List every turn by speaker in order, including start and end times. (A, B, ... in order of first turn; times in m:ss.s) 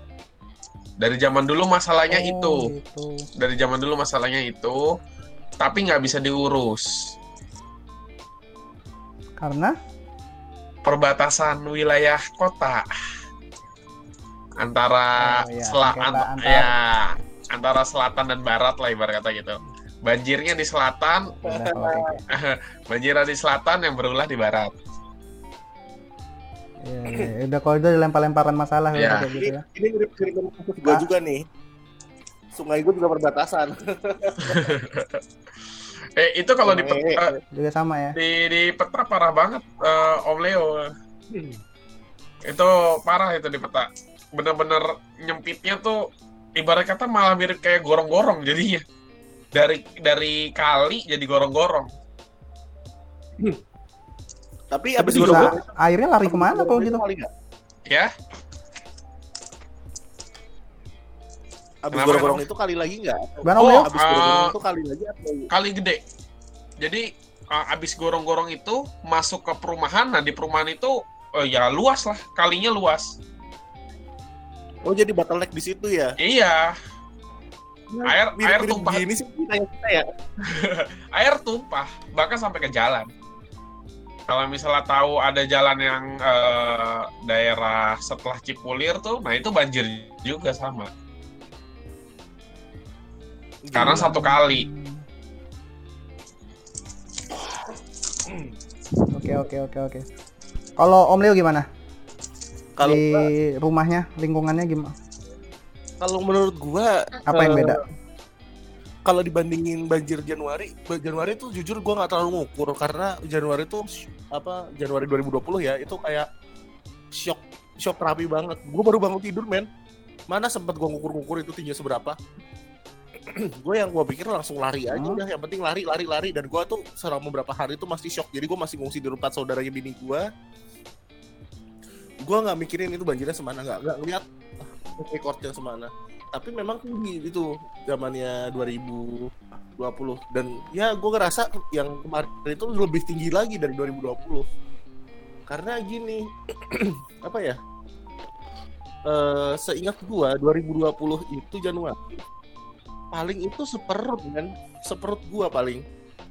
0:01.0-0:02.7 A
0:02.1-0:03.2 B
0:03.4-0:04.8 A
0:05.6-0:06.9 A
0:09.4-0:09.7 B
0:10.8-0:12.9 A
0:14.6-0:21.4 A
0:15.2-0:16.7 B
0:21.4-0:22.2 B
0:21.5-0:22.1 C
0:22.3-0:24.7 A
0:26.8-0:29.6 B
0:28.9-0:29.3 A
0:29.3-0:31.4 C
0:32.5-0:34.8 C
0:34.5-0:35.2 A
0:36.2-0:37.3 A
0:36.6-0:37.4 C
0:37.5-0:38.2 B
0:38.2-0:40.9 A
0:41.3-0:41.6 C
0:42.5-0:46.0 A
0:46.6-0:48.8 A
0:49.5-0:51.9 A
0:54.7-0:55.7 C
0:55.0-0:57.0 B
0:56.2-0:57.3 C
1:01.8-1:05.5 C
1:01.9-1:02.4 A
1:03.4-1:03.9 B
1:03.6-1:04.5 A
1:05.5-1:06.0 A
1:06.8-1:13.1 A
1:14.8-1:16.1 C
1:16.2-1:16.7 A
1:17.9-1:20.0 C
1:18.1-1:19.0 A
1:20.5-1:23.1 A
1:24.3-1:30.9 A
1:33.6-1:34.2 C
1:33.7-1:34.6 A
1:33.8-1:35.0 B
1:38.2-1:38.5 C
1:39.1-1:40.0 B
1:40.8-1:41.7 B
1:42.8-1:43.2 C
1:42.8-1:44.9 B
1:46.0-1:47.8 C
1:47.3-1:47.8 B
1:49.0-1:56.3 C
1:57.1-1:59.7 C
2:00.3-2:02.2 C
2:03.3-2:10.2 C
2:04.9-2:05.2 B
2:12.2-2:14.2 C
2:14.8-2:24.4 C
2:25.5-2:27.6 C
2:29.1-2:32.2 C
2:33.1-2:35.8 C